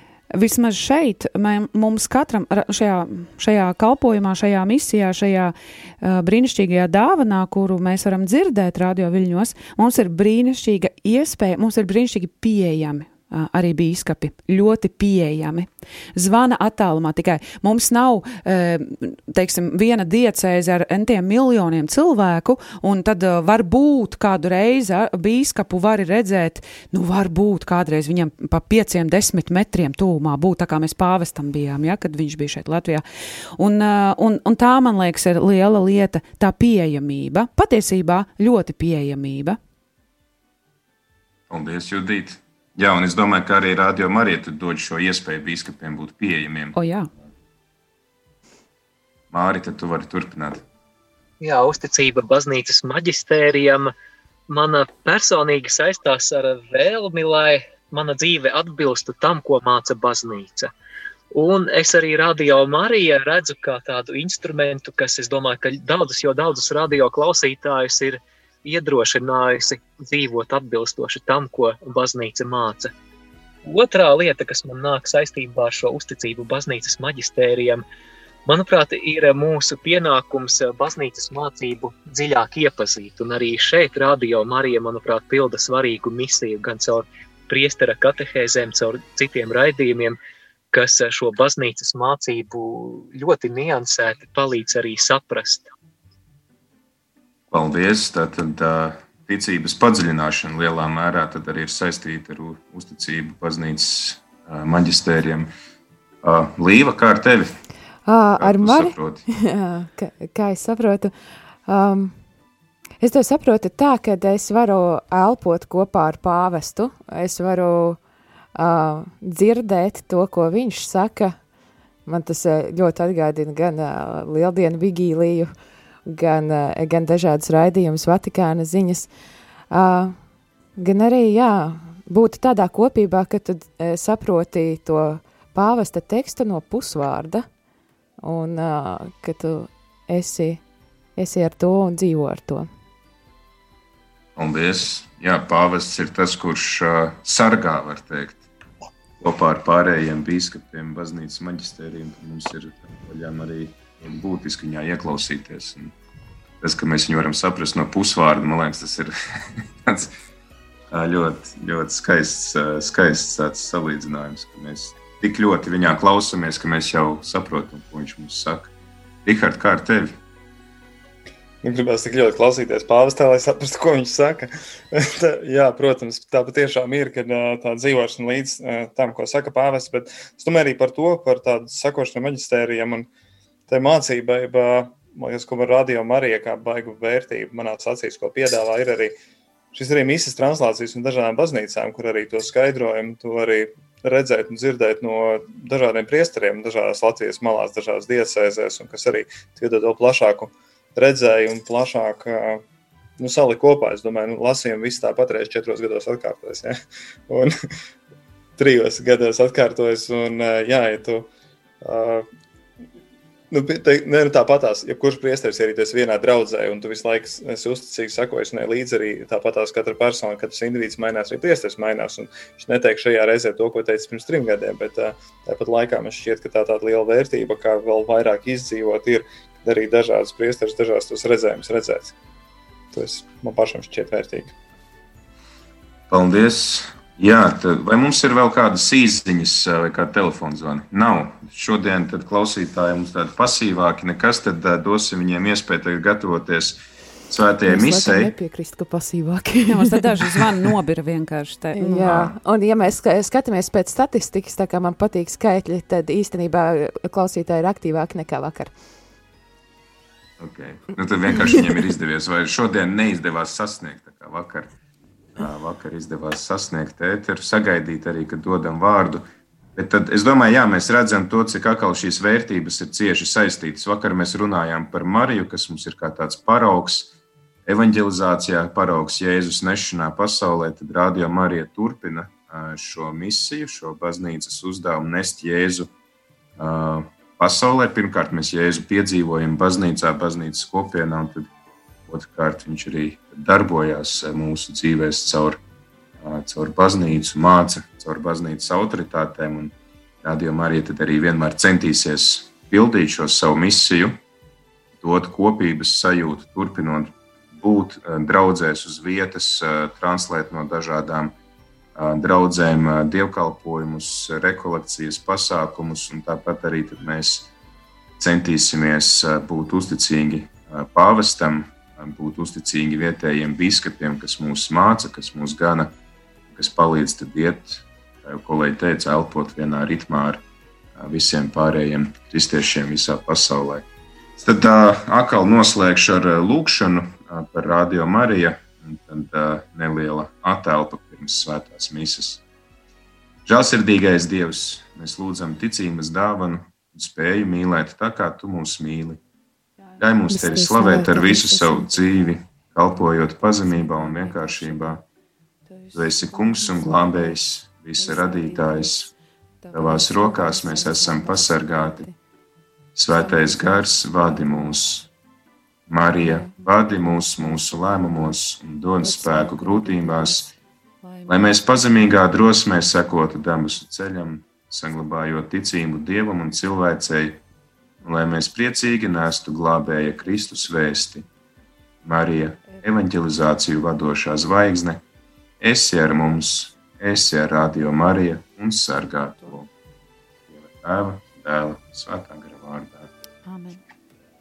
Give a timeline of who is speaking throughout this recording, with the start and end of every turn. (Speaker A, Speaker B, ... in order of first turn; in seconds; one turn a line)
Speaker A: 0.3-33.0
Speaker A: 33.6-39.6
Speaker B: 41.5-46.8
Speaker A: 46.7-47.1
Speaker B: 49.3-50.6
Speaker C: 51.4-53.9
Speaker C: 54.5-60.7
Speaker C: 61.3-72.9
Speaker C: 73.6-77.8
Speaker C: 78.5-90.2
Speaker C: 90.7-95.7
Speaker B: 97.5-105.5
Speaker B: 106.2-107.5
Speaker D: 108.0-111.1
Speaker B: 108.4-109.2
Speaker D: 111.7-112.2
Speaker D: 113.0-118.0
Speaker D: 118.5-121.3
Speaker D: 122.0-125.5
Speaker D: 126.0-129.1
Speaker D: 129.7-130.2
Speaker D: 130.8-137.4
Speaker D: 138.2-140.6
Speaker D: 141.2-142.7
Speaker B: 144.3-148.4
Speaker B: 149.2-155.9
Speaker B: 156.6-160.1
Speaker B: 160.9-168.7
Speaker B: 169.2-170.2
Speaker E: 171.6-183.1
Speaker E: 183.7-189.2
Speaker E: 189.7-202.6
Speaker E: 203.2-206.8
Speaker E: 208.6-211.3
Speaker E: 211.8-212.3
Speaker E: 213.5-232.1
Speaker E: 232.9-234.5
Speaker B: 236.1-248.3
Speaker D: 247.7-250.4
Speaker A: 249.7-252.1
Speaker D: 251.8-258.7
Speaker B: 252.0-252.3
Speaker B: 260.4-264.7
Speaker B: 265.4-269.2
Speaker B: 269.8-277.1
Speaker B: 277.6-285.9
Speaker B: 286.6-291.5
Speaker B: 292.1-295.6
Speaker B: 296.2-304.2
Speaker B: 305.0-311.3
Speaker B: 311.9-317.5
Speaker B: 318.2-325.9
Speaker B: 326.5-330.4
Speaker B: 330.9-333.8
Speaker B: 334.4-342.4
Speaker B: 343.4-349.2
Speaker B: 350.0-355.0
Speaker D: 350.3-351.6
Speaker B: 355.9-359.1
Speaker B: 359.7-362.1
Speaker B: 362.9-365.1
Speaker B: 365.9-370.5
Speaker B: 371.3-377.4
Speaker B: 378.0-381.2
Speaker B: 382.0-385.0
Speaker B: 385.6-389.7
Speaker B: 390.5-393.1